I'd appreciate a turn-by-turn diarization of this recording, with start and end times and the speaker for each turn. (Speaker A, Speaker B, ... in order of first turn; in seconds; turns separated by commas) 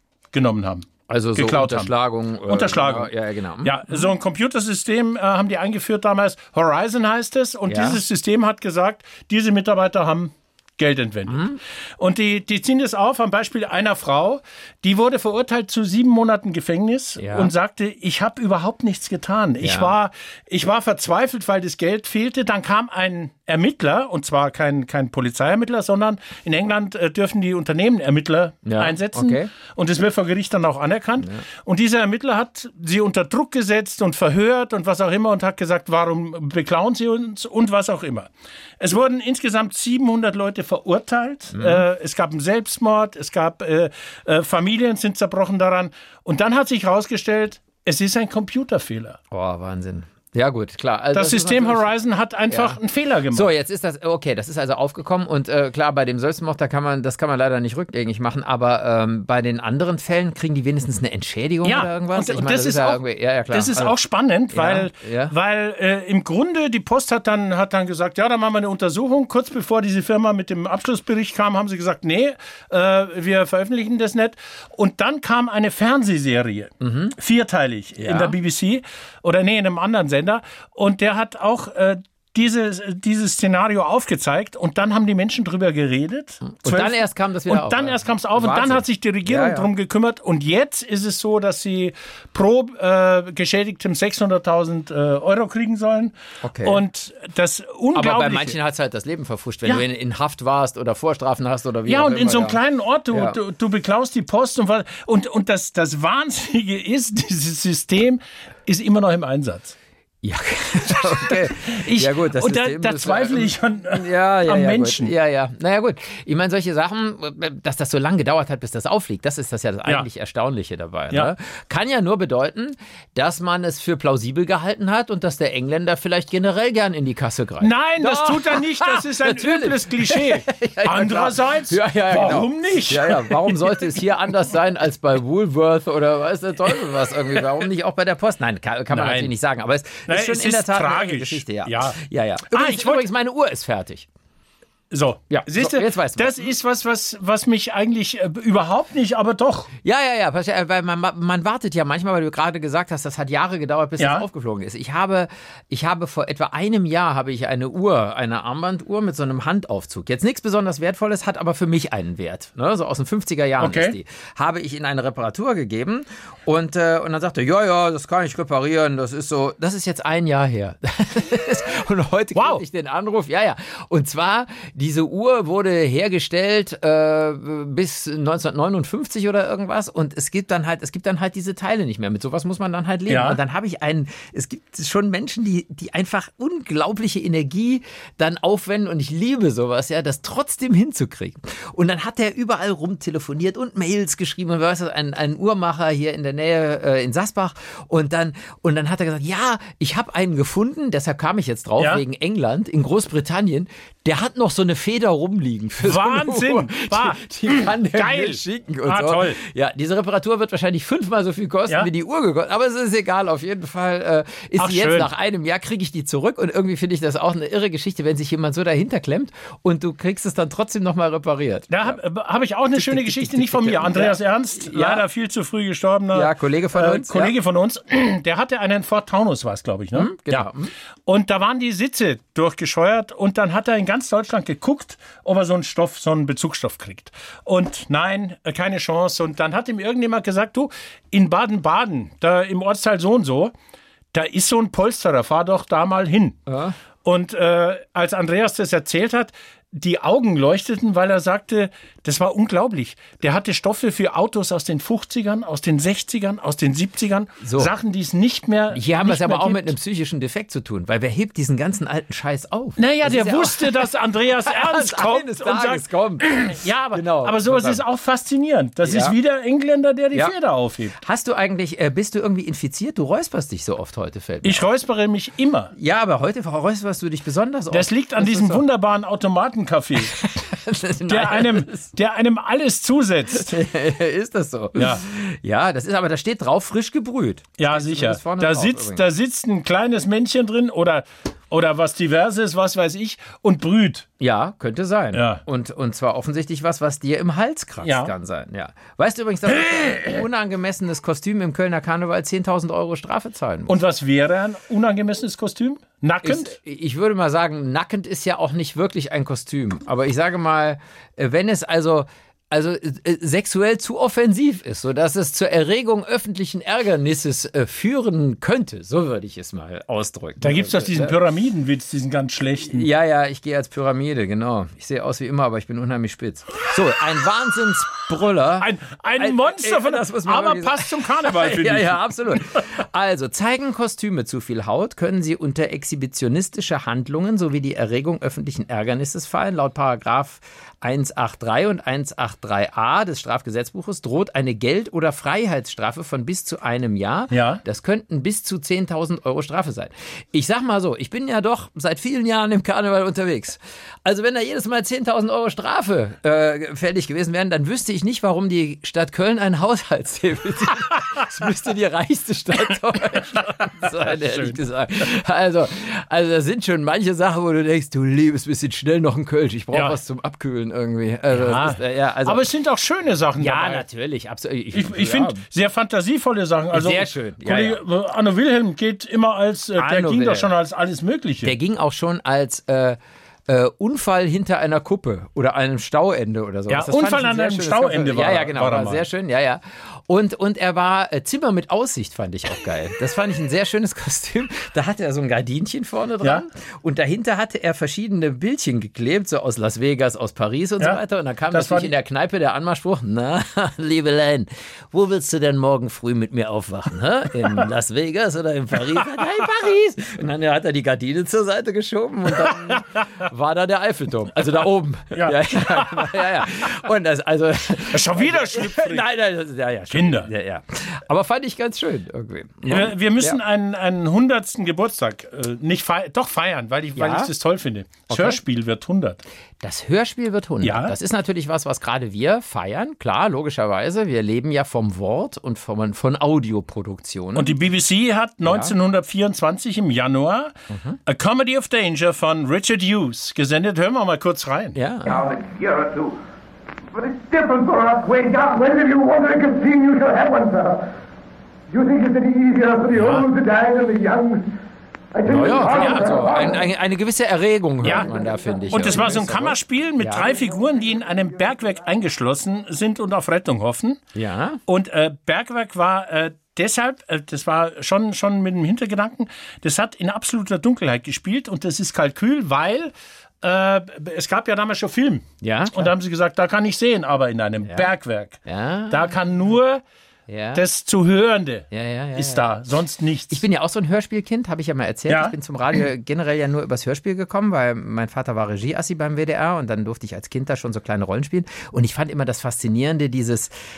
Speaker A: 0.3-1.9, Speaker B: 1.1-4.0, Speaker A: 2.5-49.2, Speaker B: 7.7-8.0, Speaker B: 11.3-11.6, Speaker B: 17.2-17.5, Speaker B: 19.6-19.9, Speaker B: 28.6-29.5, Speaker B: 41.5-41.8, Speaker B: 49.3-51.9, Speaker A: 51.1-53.5, Speaker B: 52.5-52.8, Speaker B: 53.3-64.0, Speaker A: 61.6-98.5, Speaker B: 64.5-65.3, Speaker B: 76.8-77.2, Speaker B: 78.0-78.4, Speaker B: 86.4-89.7, Speaker B: 96.4-96.8, Speaker B: 97.9-102.6, Speaker A: 101.9-109.8, Speaker B: 103.1-103.4, Speaker B: 110.2-144.1, Speaker A: 110.9-115.1, Speaker A: 127.6-134.0, Speaker A: 138.9-139.3, Speaker A: 140.1-142.0, Speaker A: 142.5-143.1, Speaker A: 144.9-149.7, Speaker B: 145.3-146.4, Speaker B: 149.8-222.0, Speaker A: 154.0-154.3, Speaker A: 163.6-164.0, Speaker A: 172.3-172.6, Speaker A: 183.1-183.4, Speaker A: 205.8-209.4, Speaker A: 214.6-215.1, Speaker A: 221.7-230.5, Speaker B: 222.8-225.0, Speaker B: 226.1-227.3, Speaker B: 229.9-230.7, Speaker A: 231.1-243.5, Speaker A: 244.1-246.4, Speaker B: 246.5-246.8, Speaker A: 247.0-259.8, Speaker B: 257.4-257.7, Speaker B: 258.7-267.8, Speaker A: 262.8-270.9, Speaker B: 268.8-269.2, Speaker B: 271.0-274.7, Speaker A: 274.4-275.7, Speaker B: 275.8-278.6, Speaker A: 277.7-280.1, Speaker B: 280.0-281.9, Speaker A: 281.1-283.6, Speaker B: 283.3-289.1, Speaker A: 284.8-285.0, Speaker A: 287.6-294.1, Speaker B: 294.2-303.8, Speaker A: 295.1-295.4, Speaker A: 297.8-298.1, Speaker A: 299.8-300.2, Speaker A: 303.7-306.6, Speaker B: 306.2-321.2, Speaker A: 320.4-322.9, Speaker B: 322.6-372.4, Speaker A: 328.6-332.6, Speaker A: 347.3-347.6, Speaker A: 363.4-364.6, Speaker A: 369.7-370.0, Speaker A: 371.3-373.8, Speaker B: 373.4-375.4, Speaker A: 374.7-381.5, Speaker B: 376.7-377.8, Speaker B: 379.8-380.5, Speaker B: 381.4-423.4, Speaker A: 386.7-389.1, Speaker A: 401.5-401.9, Speaker A: 412.3-412.8, Speaker A: 415.1-416.2, Speaker A: 417.9-419.1, Speaker A: 419.9-420.3, Speaker A: 422.7-429.2, Speaker B: 427.0-427.3, Speaker B: 428.1-428.4, Speaker B: 429.6-437.6, Speaker A: 430.6-430.9, Speaker A: 437.4-440.5, Speaker B: 438.4-438.7, Speaker B: 440.7-441.0, Speaker A: 441.1-444.8, Speaker B: 444.8-445.4, Speaker C: 445.4-446.1, Speaker C: 447.0-450.8, Speaker C: 451.8-454.4, Speaker A: 452.9-453.3, Speaker B: 455.2-460.3, Speaker A: 455.7-456.2, Speaker A: 457.8-458.1, Speaker A: 458.7-464.0, Speaker B: 464.1-464.6, Speaker A: 464.7-479.8, Speaker B: 475.4-475.9, Speaker B: 477.6-477.9, Speaker B: 478.5-479.1, Speaker B: 480.3-480.6, Speaker A: 480.6-483.4, Speaker B: 481.7-482.5, Speaker B: 483.3-493.5, Speaker A: 485.1-485.4